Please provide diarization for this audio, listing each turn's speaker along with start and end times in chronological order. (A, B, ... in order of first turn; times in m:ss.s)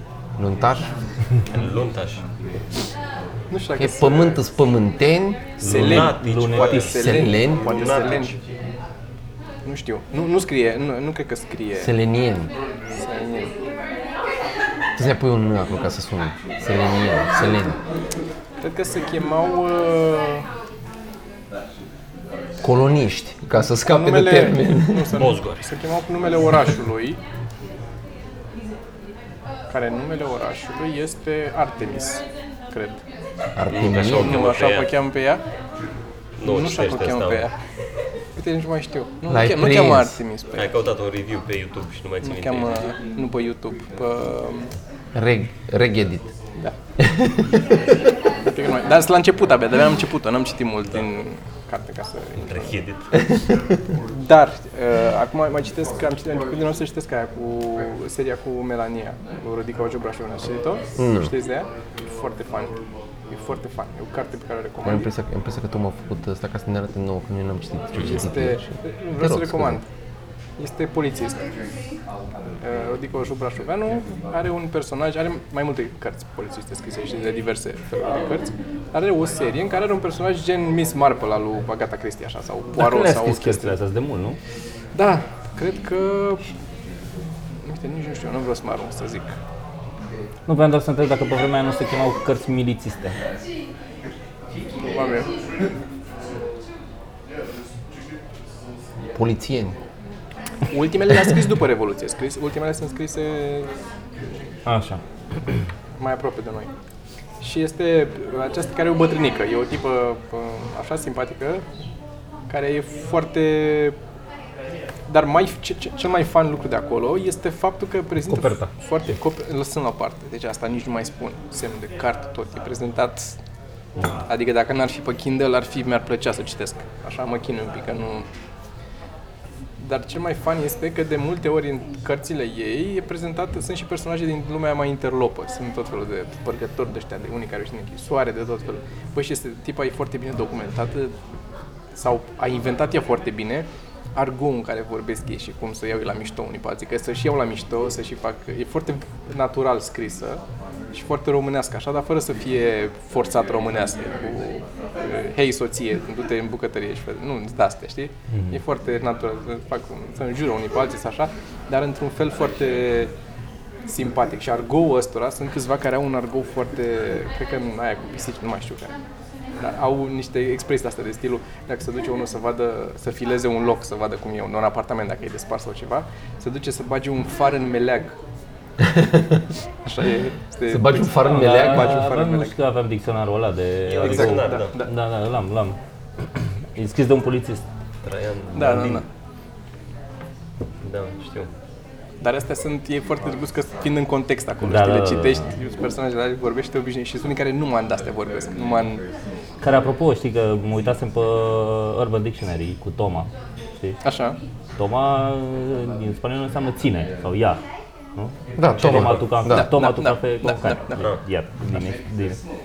0:00.4-0:00.9 A
0:01.5-0:02.2 B
0:03.5-0:04.4 C
0:03.8-0:05.6 A
0:05.6-0:06.9 D
0:05.6-0:08.4 B
0:05.6-0:08.4 C
0:06.8-0:07.8 A
0:09.6-0:11.9 C
0:11.8-0:12.5 A
0:13.0-0:13.5 C
0:15.0-0:17.8 A
0:18.6-0:20.5 C
0:22.6-0:25.2 A
0:23.8-0:27.2 C
0:25.1-0:25.7 B
0:29.7-0:33.0 C
0:33.6-0:34.4 A
0:33.7-0:35.0 B
0:34.2-0:35.4 C
0:36.4-0:37.5 B
0:36.4-0:37.6 C
0:38.4-0:40.7 C
0:39.3-0:40.2 A
0:40.5-0:42.8 B
0:42.2-0:44.7 C
0:45.2-0:46.3 A
0:47.0-0:47.7 A
0:48.4-0:52.8 C
0:52.4-0:53.1 B
0:53.2-0:53.8 A
0:54.1-1:02.8 C
1:01.0-1:01.3 A
1:03.3-1:05.1 C
1:04.8-1:09.8 A
1:08.0-1:09.9 C
1:10.6-1:11.4 C
1:12.6-1:23.8 C
1:22.8-1:24.4 D
1:24.9-1:26.4 C
1:27.6-1:29.4 C
1:30.5-1:33.2 D
1:34.8-1:35.3 C
1:39.2-1:39.8 A
1:40.7-1:43.7 C
1:44.7-1:45.0 D
1:46.0-1:46.7 C
1:47.4-1:51.6 C
1:52.5-1:54.0 C
1:55.1-2:03.4 C
2:04.2-2:08.3 C
2:09.8-2:21.2 C
2:21.9-2:30.4 C
2:30.9-2:43.1 C
2:38.3-2:38.6 D
2:43.9-2:49.0 C
2:49.6-2:58.2 C
2:58.8-2:59.5 A
2:59.8-3:02.6 C
3:00.7-3:02.1 A
3:01.2-3:05.8 D
3:03.9-3:04.8 B
3:04.0-3:04.9 C
3:06.8-3:07.7 D
3:08.0-3:09.0 B
3:08.5-3:09.0 C
3:10.8-3:11.5 B
3:12.2-3:19.0 C
3:14.6-3:15.5 D
3:19.6-3:24.0 D
3:24.0-3:24.4 C
3:24.8-3:27.6 D
3:28.2-3:32.4 D
3:28.6-3:29.7 A
3:29.5-3:31.1 C
3:31.0-3:31.2 B